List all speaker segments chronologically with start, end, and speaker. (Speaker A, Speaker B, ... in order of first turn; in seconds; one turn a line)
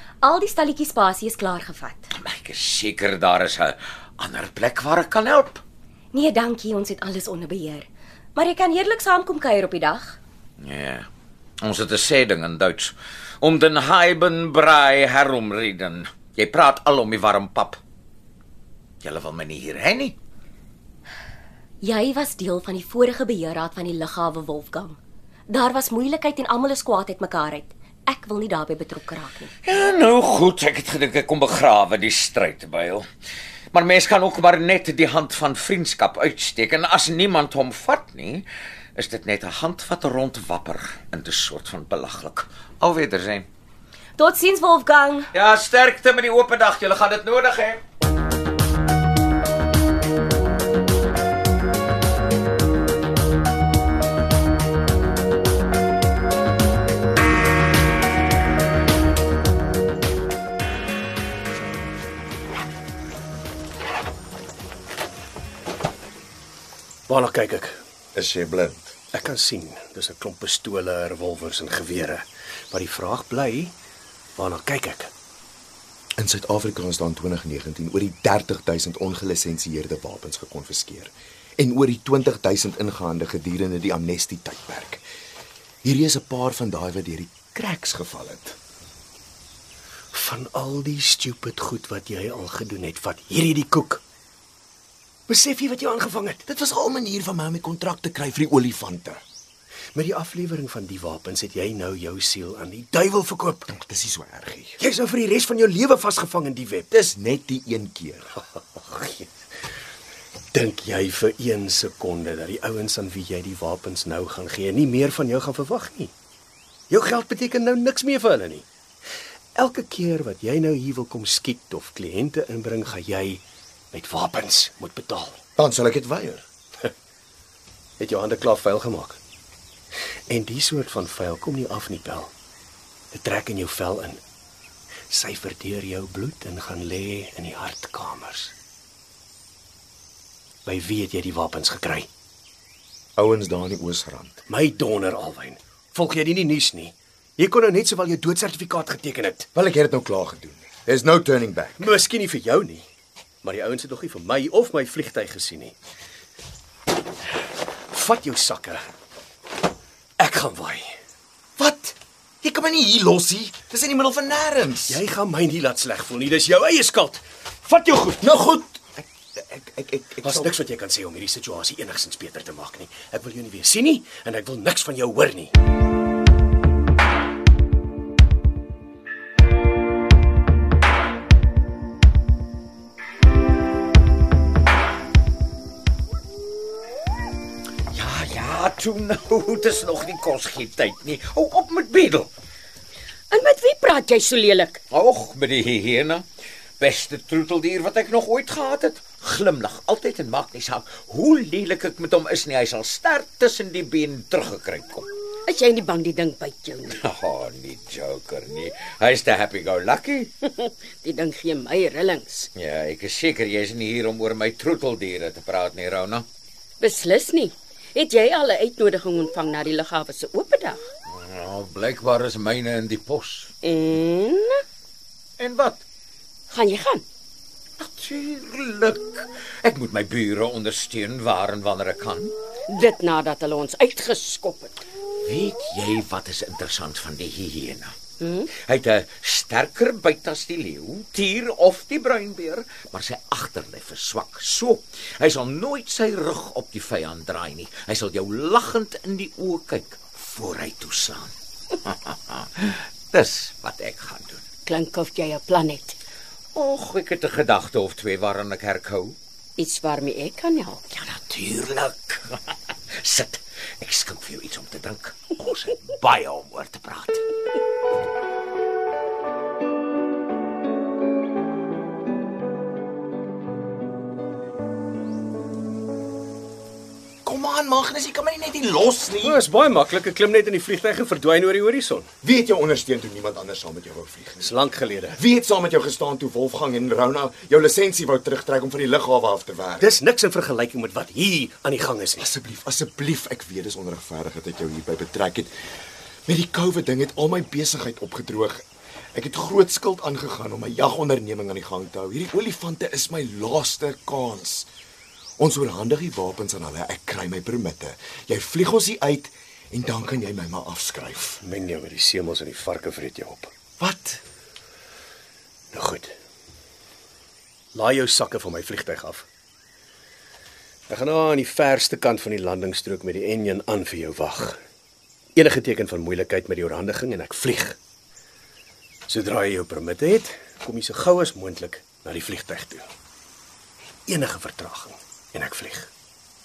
Speaker A: 0.2-2.1
Speaker B: 2.1-5.6
Speaker A: 6.1-10.2
Speaker B: 10.6-11.1
Speaker B: 11.6-17.8
Speaker B: 19.0-20.2
Speaker A: 21.8-25.0
Speaker A: 25.5-29.5
Speaker B: 29.6-33.1
Speaker B: 33.7-43.5
Speaker A: 44.2-45.3
Speaker B: 45.3-47.8
Speaker C: 67.1-67.8
Speaker D: 68.2-69.0
Speaker C: 69.1-73.7
Speaker C: 74.4-75.1
Speaker D: 76.2-85.0
Speaker D: 85.8-88.6
Speaker C: 90.1-94.0
Speaker C: 95.3-96.4
Speaker D: 96.5-99.2
Speaker C: 99.9-103.7
Speaker D: 103.7-104.8
Speaker C: 104.8-106.9
Speaker D: 106.9-108.3
Speaker C: 108.8-109.3
Speaker C: 110.5-116.1
Speaker C: 116.9-118.7
Speaker C: 119.5-125.4
Speaker D: 125.6-126.5
Speaker C: 128.0-129.2
Speaker C: 130.3-132.3
Speaker C: 133.1-134.2
Speaker C: 135.1-138.5
Speaker C: 140.7-142.1
Speaker D: 143.2-144.4
Speaker C: 144.5-149.5
Speaker D: 149.5-151.9
Speaker C: 151.8-152.8
Speaker C: 153.4-155.8
Speaker C: 157.9-158.8
Speaker C: 160.2-160.9
Speaker D: 161.6-165.0
Speaker C: 164.9-168.2
Speaker D: 168.2-170.6
Speaker C: 170.2-175.5
Speaker B: 187.9-192.3
Speaker E: 193.3-194.8
Speaker B: 194.9-196.2
Speaker B: 196.8-205.1
Speaker E: 205.5-207.0
Speaker B: 206.9-210.3
Speaker E: 210.4-212.5
Speaker B: 212.6-216.3
Speaker E: 216.8-220.8
Speaker B: 221.1-223.5
Speaker E: 223.6-224.6
Speaker B: 225.4-225.8
Speaker E: 226.5-227.0
Speaker B: 227.8-232.3
Speaker E: 232.7-234.7
Speaker B: 235.2-237.9
Speaker E: 238.2-238.5
Speaker B: 238.6-251.3
Speaker B: 251.8-254.4
Speaker E: 254.7-256.0
Speaker B: 256.6-259.2
Speaker E: 259.6-260.8
Speaker B: 260.9-267.2
Speaker D: 277.2-279.4
Speaker C: 279.2-282.1
Speaker D: 282.2-284.5
Speaker C: 284.4-285.2
Speaker D: 285.1-289.9
Speaker C: 289.8-292.3
Speaker D: 292.2-295.5
Speaker D: 296.3-304.7
Speaker D: 305.4-311.4
Speaker C: 311.4-313.5
Speaker D: 313.8-314.2
Speaker C: 315.7-316.1
Speaker C: 317.7-319.3
Speaker C: 320.9-324.6
Speaker C: 325.4-327.8
Speaker C: 329.1-332.9
Speaker C: 334.1-335.9